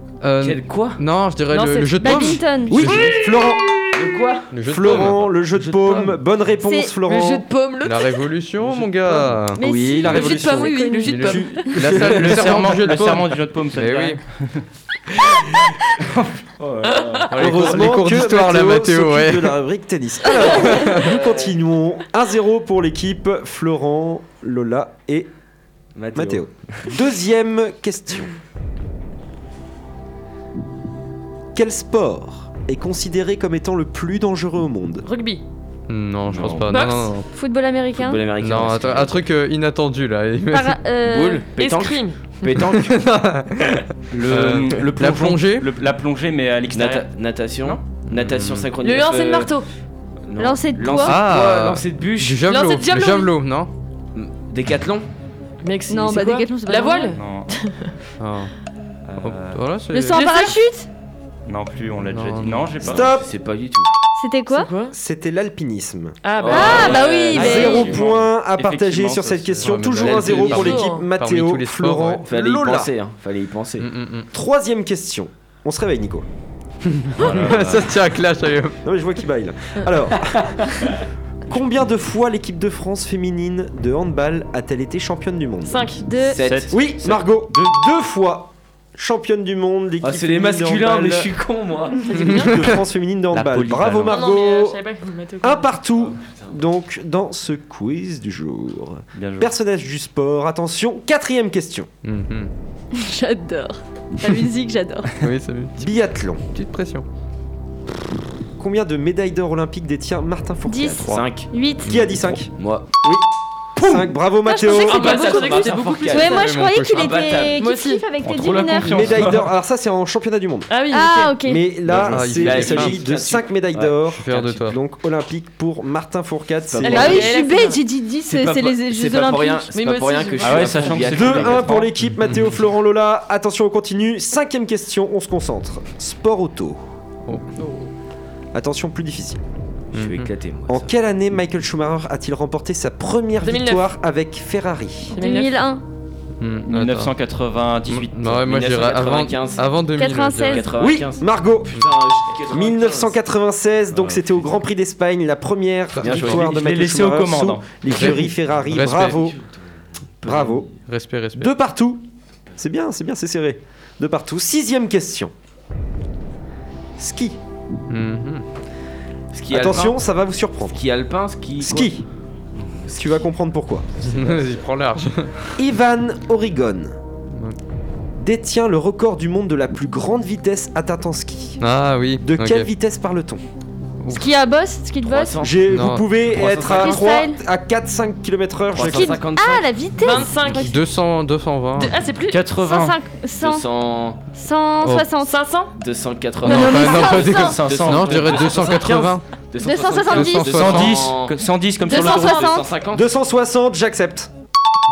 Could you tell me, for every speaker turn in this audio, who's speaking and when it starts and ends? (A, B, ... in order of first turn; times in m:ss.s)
0:00.2-0:03.0 A
0:00.4-0:01.0 B
0:01.5-0:03.8 C
0:02.0-0:02.9 D
0:02.7-0:03.8 E
0:03.9-0:04.5 B
0:04.5-0:05.3 A
0:04.6-0:07.4 E
0:05.5-0:06.2 B
0:06.6-0:06.9 D
0:07.0-0:08.3 C
0:07.8-0:09.6 A
0:09.0-0:12.6 E
0:09.5-0:11.6 D
0:10.0-0:11.9 C
0:11.0-0:14.2 A
0:11.9-0:14.6 F
0:16.6-0:17.7 B
0:16.9-0:17.3 C
0:17.3-0:19.6 A
0:17.3-0:25.3 E
0:20.7-0:21.1 A
0:21.0-0:21.6 B
0:25.9-0:27.0 B
0:26.1-0:28.3 E
0:31.5-0:35.1 E
0:35.0-0:35.4 C
0:35.9-0:37.3 A
0:36.3-0:36.7 F
0:36.7-0:37.1 C
0:37.3-0:38.2 D
0:38.0-0:39.3 B
0:38.4-0:40.8 A
0:40.5-0:41.4 D
0:41.0-0:43.0 B
0:41.6-0:42.5 C
0:42.6-0:45.7 A
0:44.1-0:47.1 F
0:46.7-0:49.5 B
0:48.0-0:48.7 A
0:48.8-0:49.7 C
0:50.2-0:52.4 B
0:50.4-0:51.2 D
0:51.0-0:53.7 A
0:52.4-0:53.3 C
0:54.1-0:55.1 B
0:55.6-0:57.9 C
0:55.9-0:57.1 D
0:57.1-0:57.6 F
0:58.2-0:58.5 A
0:59.0-0:59.6 F
0:59.2-1:00.2 A
0:59.9-1:00.9 D
1:00.1-1:00.5 C
1:01.4-1:03.2 F
1:02.1-1:02.7 A
1:02.8-1:03.9 B
1:02.8-1:03.3 E
1:04.2-1:04.7 D
1:04.5-1:04.9 C
1:04.9-1:06.7 E
1:06.2-1:07.9 C
1:06.4-1:08.0 B
1:06.5-1:08.0 D
1:07.3-1:12.9 E
1:07.8-1:09.8 F
1:09.6-1:12.2 A
1:10.0-1:10.9 B
1:10.5-1:11.1 C
1:12.2-1:13.9 B
1:13.8-1:14.3 A
1:14.3-1:16.3 E
1:16.8-1:18.8 A
1:17.2-1:17.9 F
1:18.8-1:20.8 E
1:20.3-1:21.0 B
1:21.5-1:25.8 E
1:25.6-1:26.1 C
1:26.0-1:26.4 D
1:26.2-1:26.8 B
1:26.4-1:27.8 F
1:26.7-1:31.3 E
1:30.0-1:32.2 B
1:32.0-1:32.7 C
1:32.2-1:34.8 E
1:32.2-1:32.5 A
1:33.3-1:34.2 F
1:34.0-1:35.7 C
1:35.4-1:41.9 E
1:36.0-1:36.6 B
1:39.1-1:39.5 F
1:42.0-1:42.5 A
1:42.9-1:45.1 D
1:45.2-1:45.9 A
1:45.8-1:46.4 E
1:46.5-1:47.0 A
1:48.6-1:51.2 E
1:50.7-1:52.0 D
1:51.0-1:51.5 B
1:51.8-1:52.5 E
1:51.9-1:52.1 A
1:52.6-1:52.9 B
1:53.8-1:55.2 E
1:54.4-1:59.2 D
1:54.7-1:57.6 B
1:54.8-1:56.2 C
1:56.2-1:57.4 A
1:57.6-1:58.0 C
1:58.2-1:59.5 F
1:58.9-2:00.7 E
2:00.7-2:01.4 C
2:00.9-2:01.7 D
2:01.4-2:07.3 E
2:01.8-2:04.6 B
2:02.0-2:03.0 A
2:04.1-2:04.8 A
2:06.7-2:07.4 B
2:06.8-2:07.8 C
2:06.8-2:09.7 D
2:08.3-2:11.8 B
2:09.7-2:10.9 C
2:10.4-2:12.0 F
2:11.0-2:16.8 E
2:17.2-2:17.9 A
2:18.5-2:19.4 E
2:19.9-2:20.9 B
2:19.9-2:20.3 A
2:20.7-2:25.2 E
2:23.4-2:23.8 C
2:25.1-2:25.6 C
2:25.1-2:25.8 D
2:26.4-2:27.1 A
2:26.7-2:28.4 F
2:27.9-2:30.7 A
2:28.4-2:29.7 B
2:30.0-2:30.7 D
2:30.5-2:33.2 B
2:30.8-2:31.7 E
2:32.5-2:39.4 E
2:33.9-2:34.6 B
2:36.0-2:36.5 B
2:36.0-2:37.8 F
2:37.9-2:39.2 A
2:38.8-2:40.8 B
2:40.2-2:40.7 E
2:40.8-2:41.5 A
2:41.4-2:42.0 E
2:42.6-2:45.3 E
2:47.0-2:47.4 E
2:47.9-2:48.4 A
2:49.3-2:50.0 B
2:49.5-2:50.8 E
2:50.7-2:52.0 B
2:51.6-2:52.0 E
2:52.5-2:53.2 B
2:52.9-2:53.9 E
2:54.0-2:54.6 B
2:54.0-2:55.6 A
2:55.6-2:57.0 E
2:58.2-3:01.6 E
3:01.6-3:02.7 A
3:02.2-3:03.4 E
3:04.0-3:04.3 A
3:04.1-3:05.4 D
3:05.0-3:05.6 B
3:05.4-3:09.2 E
3:05.7-3:06.1 A
3:06.2-3:07.2 B
3:06.8-3:07.4 D
3:08.7-3:09.7 B
3:08.8-3:10.8 D
3:10.0-3:10.8 C
3:10.5-3:12.0 A
3:11.8-3:12.4 C
3:12.3-3:13.0 F
3:12.6-3:13.7 D
3:13.4-3:14.2 B
3:14.3-3:15.4 D
3:14.8-3:15.1 A
3:15.2-3:15.7 C
3:15.7-3:23.0 B
3:16.4-3:19.2 A
3:16.4-3:17.6 D
3:17.2-3:18.5 F
3:19.6-3:20.8 D
3:20.0-3:21.1 A
3:20.5-3:22.6 F
3:21.8-3:22.6 D
3:22.9-3:24.3 E